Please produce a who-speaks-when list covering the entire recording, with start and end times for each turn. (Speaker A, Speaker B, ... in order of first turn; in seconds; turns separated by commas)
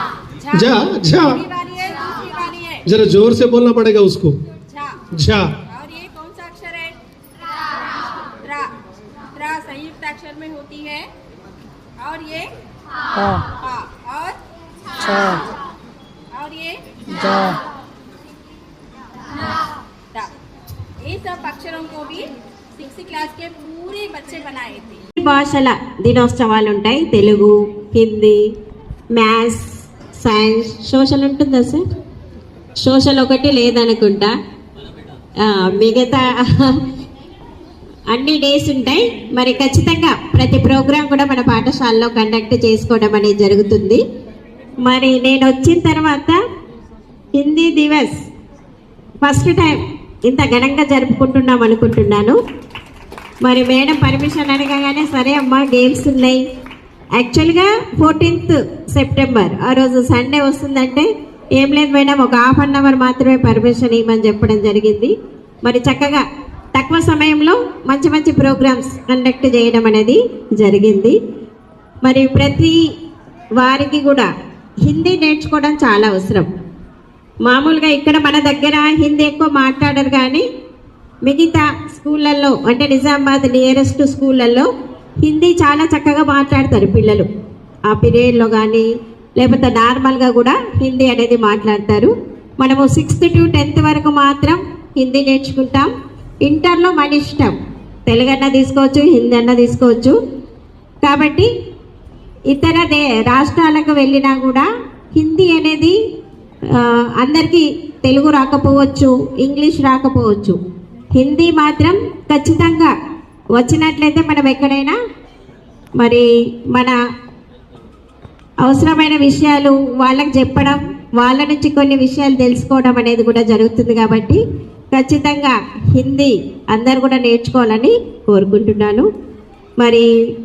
Speaker A: 0.4-2.9, Speaker B: 0.6-1.4, Speaker B: 2.9-4.4, Speaker A: 4.7-5.1, Speaker B: 5.1-5.5, Speaker A: 5.7-7.0, Speaker A: 8.4-8.7, Speaker A: 9.3-11.1, Speaker A: 12.0-12.5, Speaker A: 13.2-14.4, Speaker A: 15.0-15.4, Speaker A: 16.3-17.6, Speaker A: 21.0-25.0, Speaker C: 25.2-28.4, Speaker C: 29.1-31.8, Speaker C: 32.8-34.3, Speaker C: 35.4-36.8, Speaker C: 38.1-44.0, Speaker C: 44.8-46.4, Speaker C: 47.4-48.1, Speaker C: 49.2-52.4, Speaker C: 53.4-56.4, Speaker C: 57.1-65.1, Speaker C: 65.6-71.1, Speaker C: 72.0-72.8, Speaker C: 73.6-74.3, Speaker C: 74.8-76.5, Speaker C: 77.4-80.4, Speaker C: 81.2-84.7, Speaker C: 85.2-87.3, Speaker C: 87.9-95.9, Speaker C: 96.4-97.5, Speaker C: 98.1-100.2, Speaker C: 101.0-101.5, Speaker C: 102.5-105.9, Speaker C: 106.7-110.6, Speaker C: 111.2-112.9, Speaker C: 113.5-115.0, Speaker C: 116.0-117.0, Speaker C: 118.6-124.4, Speaker C: 124.9-129.1, Speaker C: 129.8-130.1